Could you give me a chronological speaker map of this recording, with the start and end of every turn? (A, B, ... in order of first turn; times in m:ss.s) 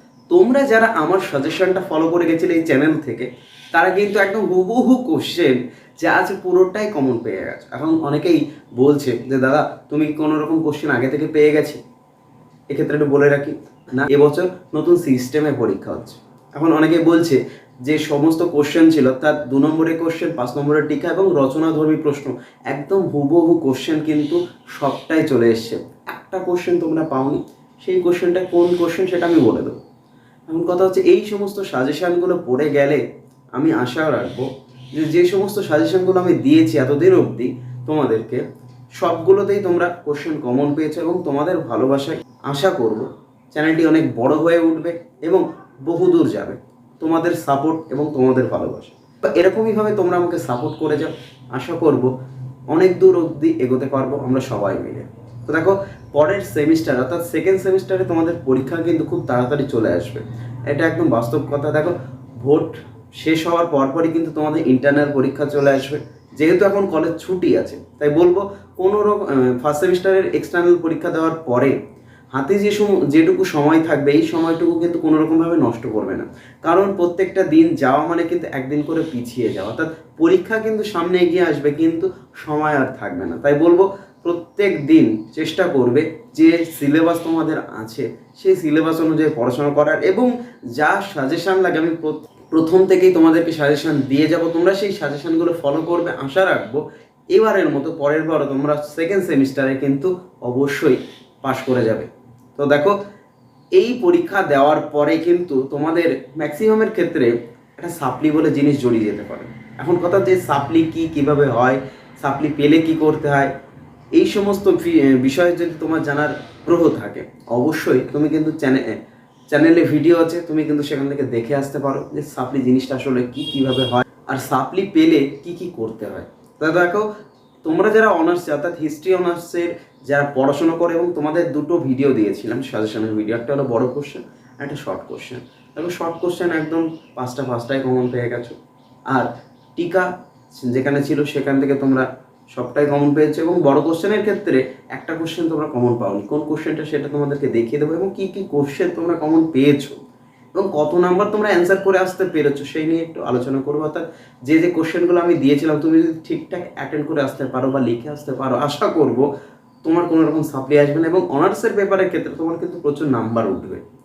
0:00.3-0:11.8 A
0:12.7-0:29.8 A
0:30.5-0:33.0 A
0:33.6-0:38.4 A
0:39.0-0:52.1 A
0:52.7-1:11.7 A
1:12.3-1:43.0 A
1:43.7-1:53.5 A
1:54.1-1:59.0 A
1:59.5-2:07.1 A
2:07.6-2:18.6 A
2:19.1-2:30.0 A
2:30.5-2:39.3 A
2:39.8-2:43.8 A